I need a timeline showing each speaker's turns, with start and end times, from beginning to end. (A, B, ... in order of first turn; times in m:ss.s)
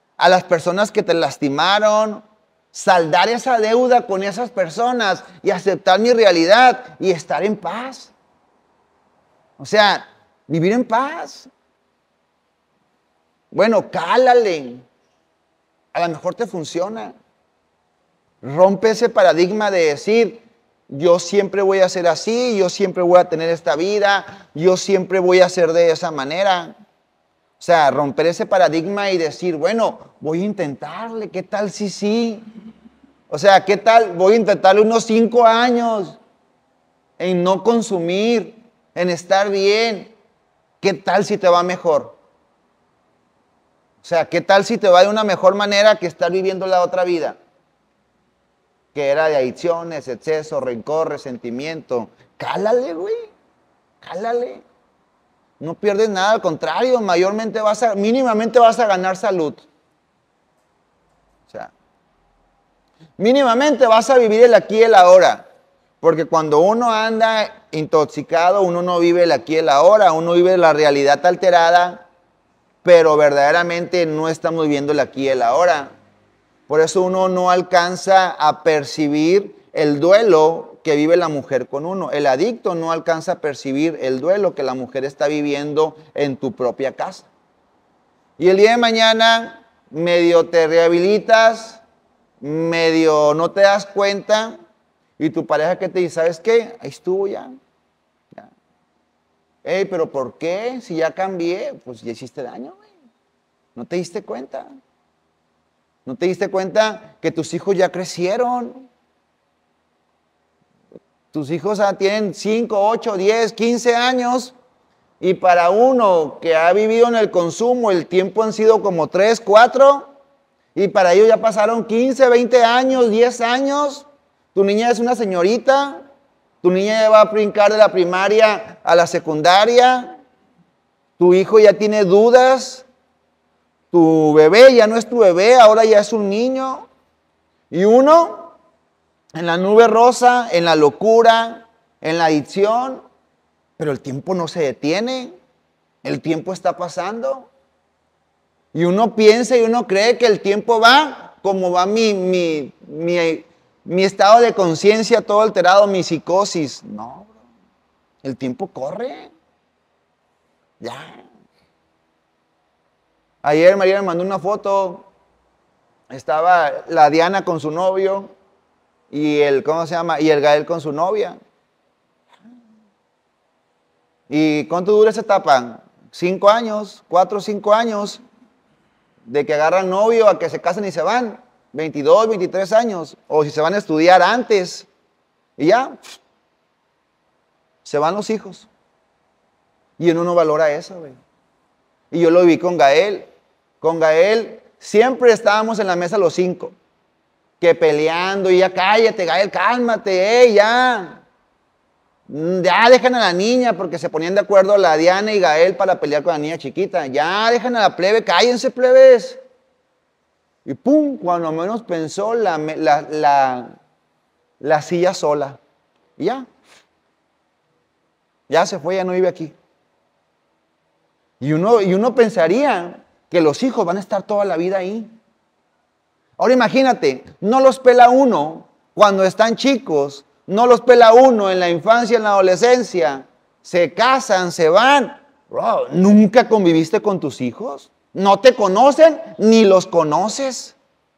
0:00.2-0:08.1 A
0:09.6-0:11.5 A
0:13.5-0:14.8 A
0:15.9-0:17.2 A
0:18.4-0:26.8 A
0:27.6-0:32.5 A
0:33.3-0:36.2 A
0:37.2-0:40.1 A
0:40.8-0:42.2 A
0:44.0-0:47.4 A
0:48.9-0:53.3 A
0:54.0-0:54.6 A
0:55.6-0:59.6 A
1:03.2-1:05.4 A
1:06.0-1:12.0 A
1:12.8-1:15.9 A
1:16.7-1:27.3 A
1:28.4-1:31.8 A
1:32.4-1:34.6 A
1:35.2-1:37.5 A
1:39.6-1:42.8 A
1:43.8-1:44.7 A
1:46.0-1:48.9 A
1:51.3-1:54.5 A
1:55.2-2:00.1 A
2:00.7-2:06.0 A
2:06.6-2:10.2 A
2:11.2-2:12.8 A
2:13.9-2:16.9 A
2:17.7-2:18.6 A
2:19.4-2:23.0 A
2:23.8-2:25.4 A
2:26.0-2:27.5 A
2:28.7-2:37.3 A
2:38.2-2:39.3 A
2:40.8-2:41.2 A
2:43.4-2:45.1 A
2:46.1-2:48.3 A
2:49.1-2:51.4 A
2:54.3-2:58.2 A
2:59.2-3:04.9 A
3:05.6-3:06.0 A
3:07.8-3:08.7 A
3:10.0-3:11.2 A
3:12.1-3:13.3 A
3:13.8-3:16.7 A
3:17.6-3:21.2 A
3:22.3-3:29.4 A
3:30.6-3:33.8 A
3:34.6-3:35.6 A
3:36.2-3:36.5 A
3:38.5-3:39.5 A
3:41.4-3:45.1 A
3:46.4-4:00.8 A